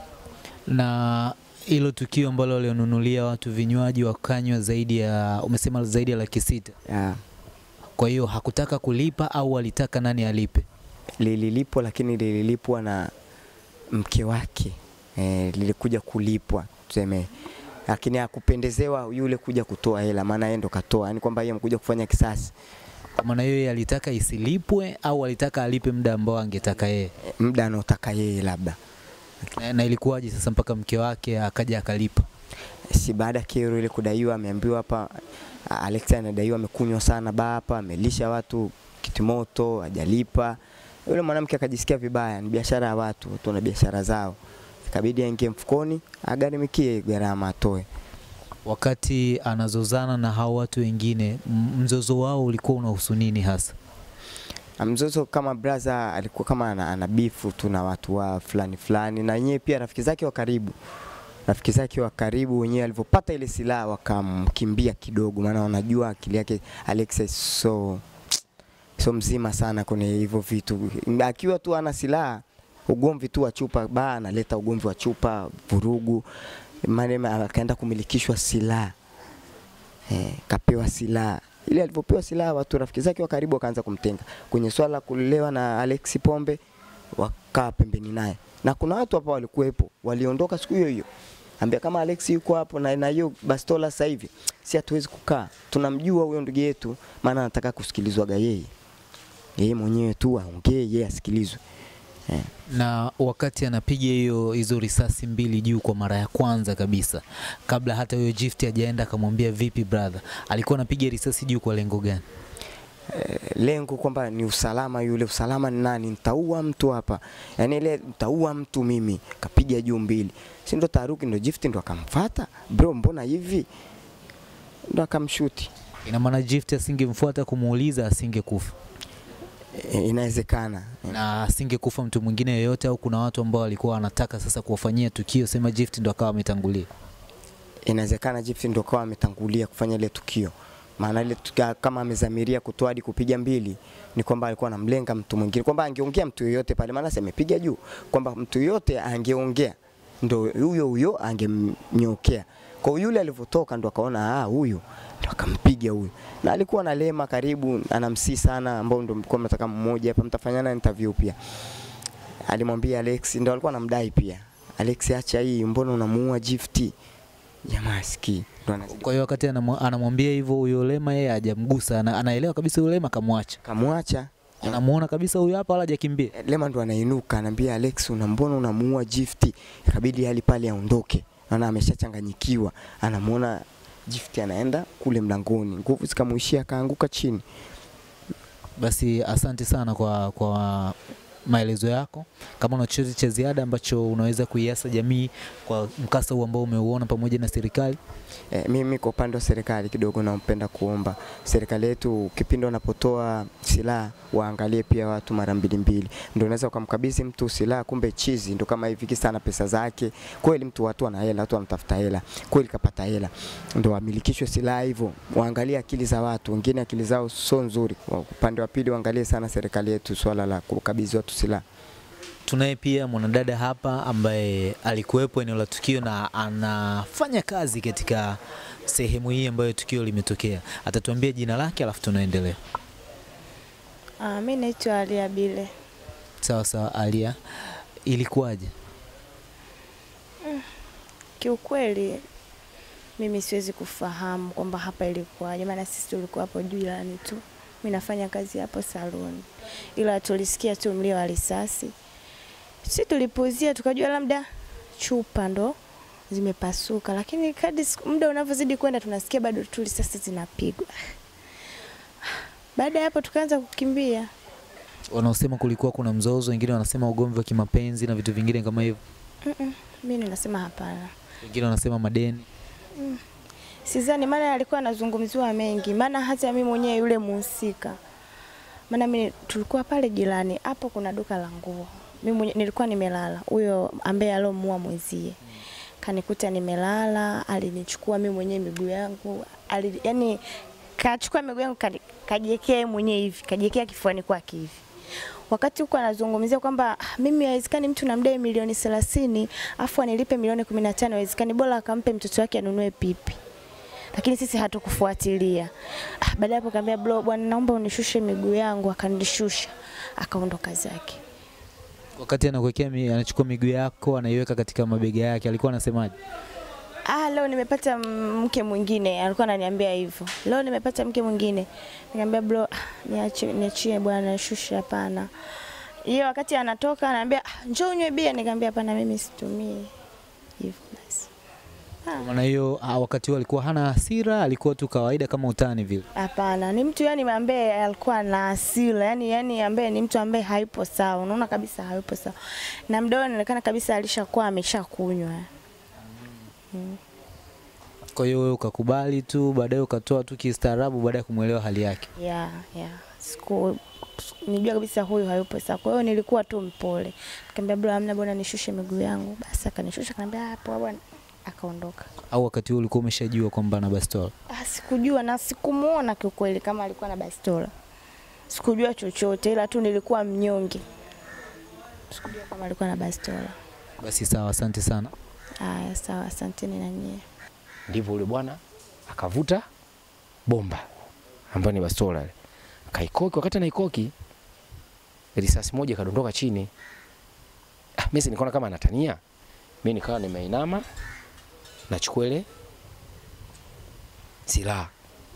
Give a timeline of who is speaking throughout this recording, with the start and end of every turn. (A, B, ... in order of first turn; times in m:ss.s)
0:00.7-0:06.8 A
0:06.9-0:07.2 B
0:08.0-0:10.7 A
0:11.2-0:13.1 B
0:13.9-0:17.3 B
0:17.9-0:22.5 B
0:23.2-0:27.1 A
0:27.2-0:28.8 B
0:29.5-0:32.2 A
0:32.9-0:35.1 B
0:35.7-0:47.9 B
0:48.6-0:53.8 A
0:54.8-1:00.8 B
1:01.5-1:08.0 B
1:09.0-1:16.3 B
1:16.8-1:18.9 B
1:20.1-1:26.6 B
1:27.2-1:31.1 B
1:31.6-1:38.7 B
1:39.6-1:41.6 B
1:42.7-1:52.2 A
1:53.1-2:03.7 B
2:04.9-2:05.7 B
2:06.0-2:08.8 A
2:09.8-2:11.2 B
2:11.1-2:16.9 A
2:17.9-2:41.4 B
2:42.5-2:46.9 B
2:47.7-2:49.1 B
2:48.9-2:53.6 A
2:53.6-2:54.8 B
2:54.6-2:56.3 A
2:56.3-3:07.4 B
3:08.8-3:18.0 A
3:18.5-3:41.6 B
3:42.4-3:52.6 A
3:54.2-3:55.7 C
3:56.4-3:57.4 A
3:58.1-3:58.7 A
4:01.4-4:02.2 C
4:03.2-4:11.9 C
4:12.8-4:14.5 C
4:15.0-4:15.8 C
4:16.3-4:20.9 C
4:22.8-4:24.3 C
4:25.1-4:29.0 A
4:29.4-4:31.1 C
4:31.4-4:32.5 A
4:33.0-4:33.2 C
4:33.8-4:38.0 C
4:38.9-4:45.4 C
4:46.0-4:50.4 C
4:51.0-4:54.8 C
4:55.5-5:03.4 C
5:04.1-5:11.2 C
5:12.2-5:16.2 A
5:17.1-5:25.3 C
5:26.0-5:29.9 C
5:30.6-5:31.3 C
5:32.2-5:36.1 A
5:36.2-5:42.4 C
5:42.9-5:45.5 C
5:46.7-5:47.0 C
5:48.1-5:52.1 A
5:52.2-6:02.1 C
6:02.3-6:04.3 A
6:04.5-6:07.7 C
6:08.5-6:10.8 C
6:12.1-6:13.6 C
6:14.0-6:15.1 A
6:15.6-6:17.2 C
6:17.9-6:19.6 D
6:20.5-6:20.9 D
6:21.5-6:22.3 D
6:22.9-6:24.1 D
6:25.4-6:26.7 D
6:28.0-6:29.2 D
6:29.8-6:30.9 D
6:31.9-6:32.5 D
6:34.5-6:34.9 D